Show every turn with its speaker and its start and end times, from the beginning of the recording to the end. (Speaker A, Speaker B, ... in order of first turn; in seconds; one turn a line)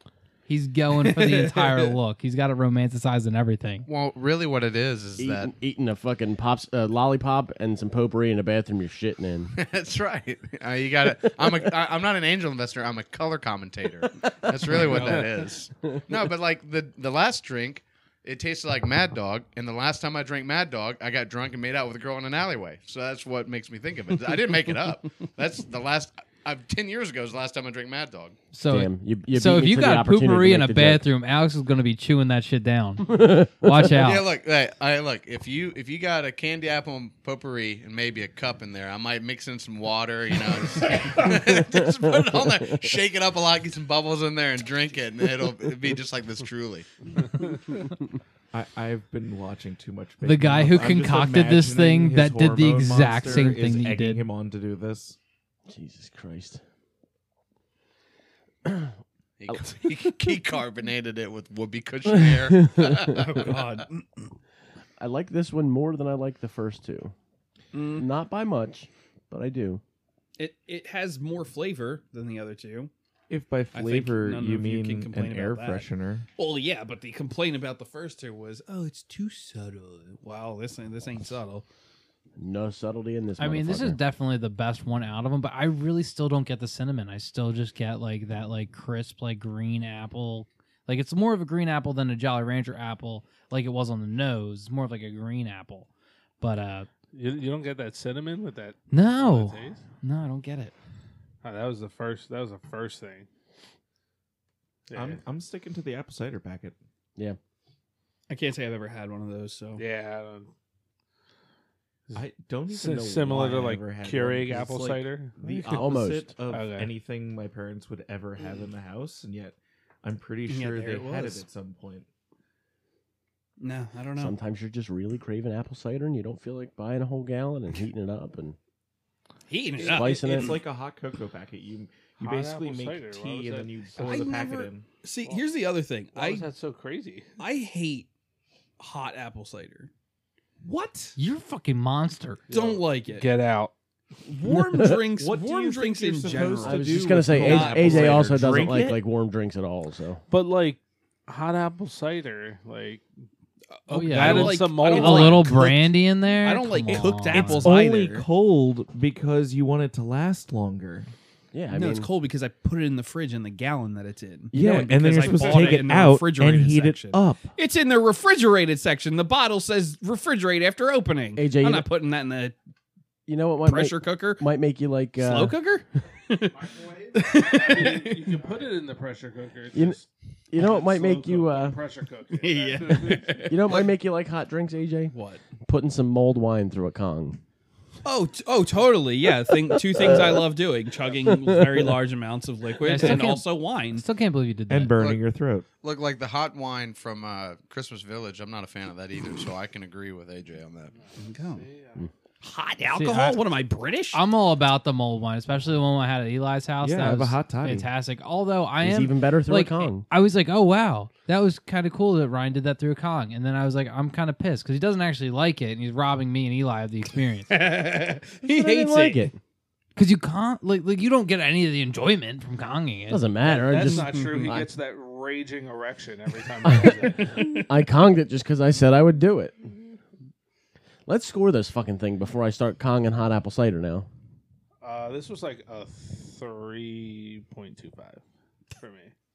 Speaker A: 0.5-3.9
Speaker B: 1.1-1.9
Speaker C: 3.9-5.5
Speaker D: 5.2-9.5
Speaker C: 9.5-28.4
Speaker A: 28.5-34.2
Speaker D: 28.6-31.1
Speaker D: 33.0-34.0
Speaker C: 33.9-46.9
Speaker D: 41.2-43.0
Speaker E: 48.5-55.2
Speaker A: 50.2-54.2
Speaker D: 55.7-56.6
Speaker D: 58.6-58.9
Speaker C: 59.4-63.8
Speaker D: 59.5-60.1
Speaker D: 62.1-63.2
Speaker B: 63.1-64.3
Speaker D: 65.0-67.1
Speaker B: 67.7-68.0
Speaker D: 67.9-69.8
Speaker B: 70.4-72.9
Speaker E: 73.3-76.2
Speaker B: 73.7-81.6
Speaker D: 82.4-84.0
Speaker A: 83.4-95.9
Speaker A: 96.4-96.9
Speaker F: 97.1-99.8
Speaker A: 98.9-100.7
Speaker F: 101.4-103.3
Speaker F: 104.9-105.2
Speaker E: 104.9-106.8
Speaker B: 108.3-109.8
Speaker F: 109.8-110.5
Speaker F: 112.1-115.9
Speaker E: 112.1-122.1
Speaker D: 115.5-116.3
Speaker F: 116.5-116.9
Speaker B: 120.5-121.4
Speaker B: 123.6-124.3
Speaker D: 124.2-128.6
Speaker B: 129.5-130.6
Speaker D: 129.8-130.6
Speaker E: 129.8-134.8
Speaker F: 132.2-134.4
Speaker B: 134.0-136.5
Speaker F: 136.1-137.3
Speaker B: 137.4-138.1
Speaker B: 138.8-139.9
Speaker E: 140.6-141.2
Speaker A: 141.2-142.4
Speaker F: 142.5-143.7
Speaker B: 142.5-143.3
Speaker B: 144.2-148.4
Speaker D: 144.5-145.0
Speaker E: 145.1-149.0
Speaker D: 146.6-150.2
Speaker F: 150.3-153.0
Speaker B: 153.9-158.2
Speaker F: 153.9-155.6
Speaker A: 153.9-157.7
Speaker E: 157.0-161.1
Speaker D: 161.5-162.1
Speaker B: 161.7-172.6
Speaker D: 164.5-165.4
Speaker E: 164.5-167.5
Speaker F: 165.4-165.8
Speaker D: 171.3-171.9
Speaker D: 173.3-175.6
Speaker B: 173.6-174.4
Speaker B: 175.2-178.4
Speaker F: 176.7-183.5
Speaker D: 180.5-181.8
Speaker B: 182.3-183.9
Speaker D: 183.5-185.1
Speaker B: 185.1-185.4
Speaker D: 185.6-187.4
Speaker B: 188.0-194.0
Speaker D: 189.9-190.4
Speaker D: 191.2-191.9
Speaker A: 192.8-194.9
Speaker E: 194.7-195.7
Speaker C: 195.8-200.9
Speaker F: 200.9-202.1
Speaker B: 201.2-201.6
Speaker B: 202.4-204.2
Speaker A: 202.9-203.4
Speaker A: 204.1-217.5
Speaker E: 206.8-207.9
Speaker D: 208.8-210.1
Speaker B: 217.5-219.3
Speaker D: 218.4-219.4
Speaker A: 219.9-223.2
Speaker D: 223.1-224.7
Speaker F: 223.4-227.6
Speaker B: 223.8-224.5
Speaker D: 226.6-229.7
Speaker B: 227.3-227.7
Speaker D: 231.1-234.1
Speaker F: 234.8-239.1